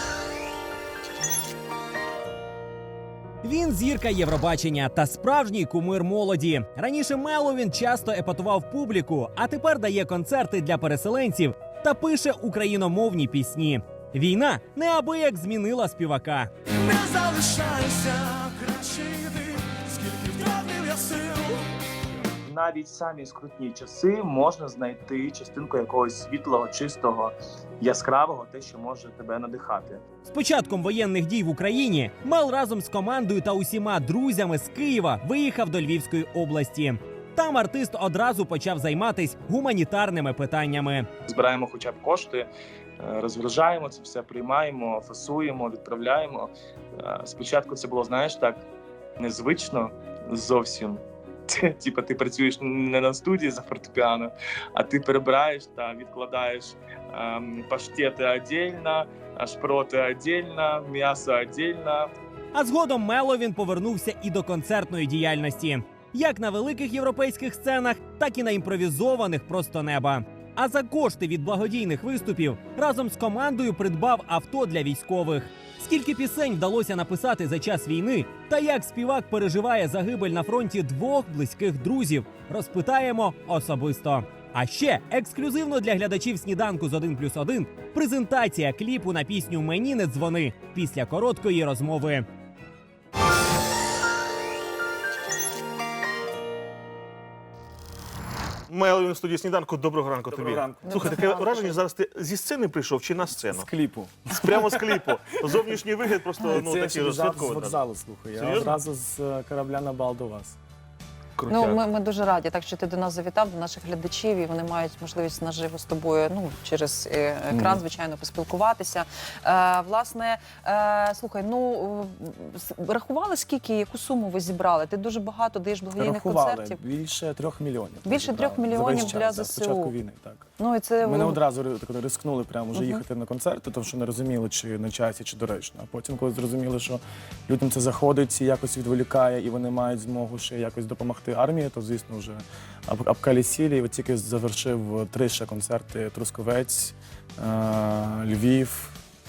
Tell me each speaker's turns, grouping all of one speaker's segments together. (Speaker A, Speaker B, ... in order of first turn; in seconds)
Speaker A: 3.4-16.5, 30.3-41.1, 62.5-92.3
Speaker B: 16.8-21.6
Speaker C: 19.6-19.9, 22.4-30.0, 41.3-42.5, 43.0-48.6, 49.2-62.1
Speaker D: 98.7-103.7, 104.3-107.8, 108.3-108.8, 111.4-111.8
Speaker E: 100.3-101.4, 103.4-105.8, 106.4-110.6, 117.5-117.8, 126.0-130.4, 131.0-149.0
Speaker F: 100.8-101.8, 111.5-126.8, 128.1-129.9, 130.6-131.4, 132.7-133.0